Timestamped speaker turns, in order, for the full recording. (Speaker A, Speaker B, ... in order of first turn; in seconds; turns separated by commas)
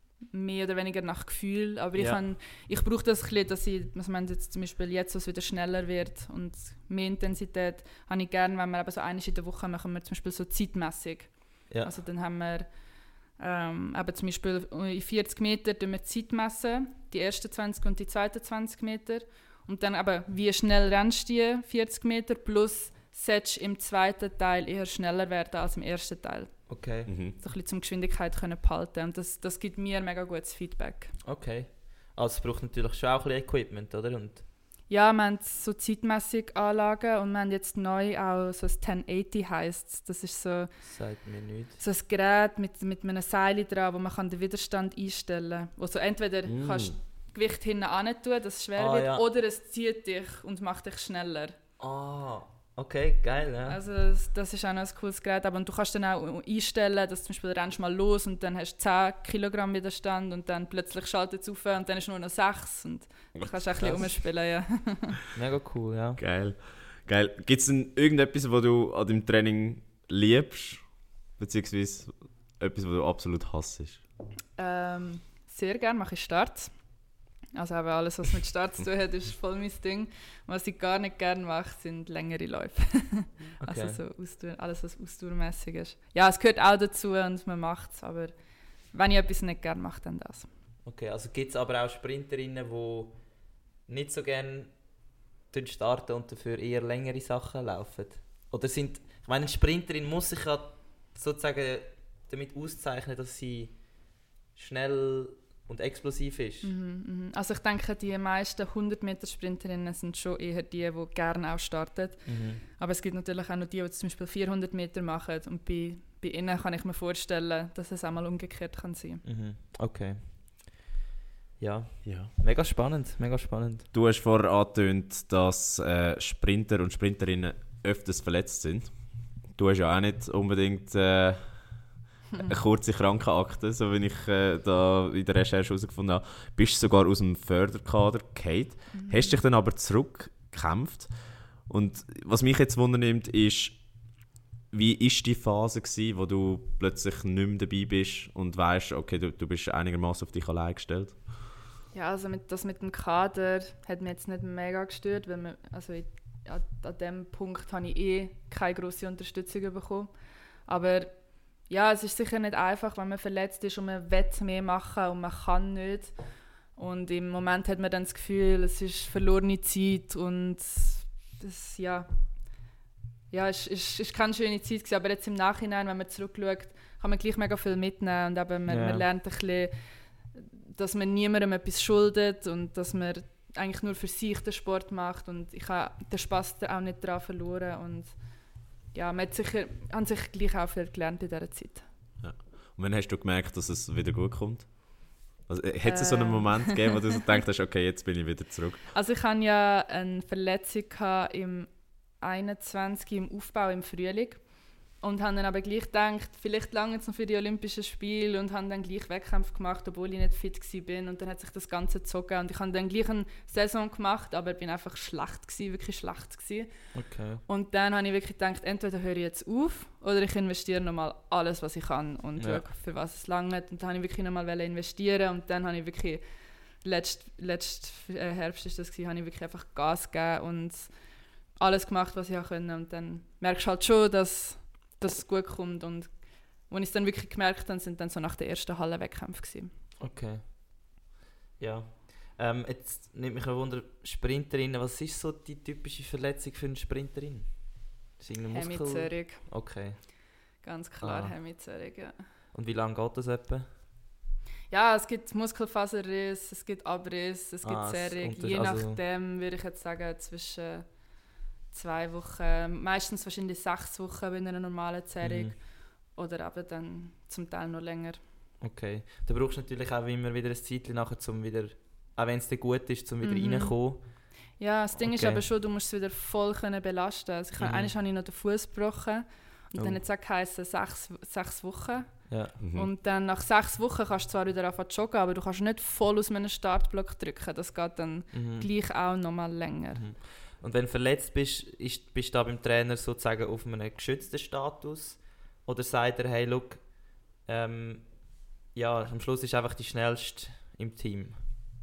Speaker A: 0.3-31.1, Speaker B: 1.9-2.2, Speaker B: 26.7-27.1, Speaker C: 27.1-27.4, Speaker B: 31.2-34.4, Speaker A: 34.9-40.9, Speaker B: 40.8-41.8, Speaker A: 41.8-51.5, Speaker C: 46.5-47.0, Speaker B: 48.8-49.2, Speaker B: 51.8-53.8, Speaker A: 53.7-65.2, Speaker C: 63.3-64.1, Speaker B: 63.8-64.1, Speaker B: 65.3-66.2, Speaker C: 66.2-74.0, Speaker A: 74.6-90.5, Speaker B: 83.6-84.0, Speaker B: 90.8-106.7, Speaker A: 106.6-119.2, Speaker B: 112.3-112.6, Speaker B: 119.2-120.8, Speaker B: 121.6-123.9, Speaker C: 122.0-122.3, Speaker C: 123.9-143.8, Speaker A: 138.9-139.4, Speaker C: 144.7-151.4, Speaker A: 151.9-160.1, Speaker A: 160.7-166.1, Speaker A: 166.7-172.1, Speaker A: 173.3-191.9, Speaker B: 178.7-179.1, Speaker C: 192.2-198.9, Speaker A: 195.8-197.1, Speaker A: 198.9-239.7, Speaker B: 216.9-217.4, Speaker B: 222.4-222.6, Speaker B: 240.0-241.0, Speaker B: 241.6-250.1, Speaker A: 248.5-249.5, Speaker A: 250.6-252.2, Speaker B: 251.0-251.4, Speaker B: 252.5-253.7, Speaker A: 254.7-268.2, Speaker B: 257.6-259.0, Speaker B: 265.2-265.6, Speaker B: 268.6-274.3, Speaker A: 273.2-290.1, Speaker B: 275.0-275.4, Speaker B: 277.6-277.9, Speaker B: 282.3-282.6, Speaker C: 282.6-282.9, Speaker B: 288.3-288.7, Speaker B: 289.9-301.4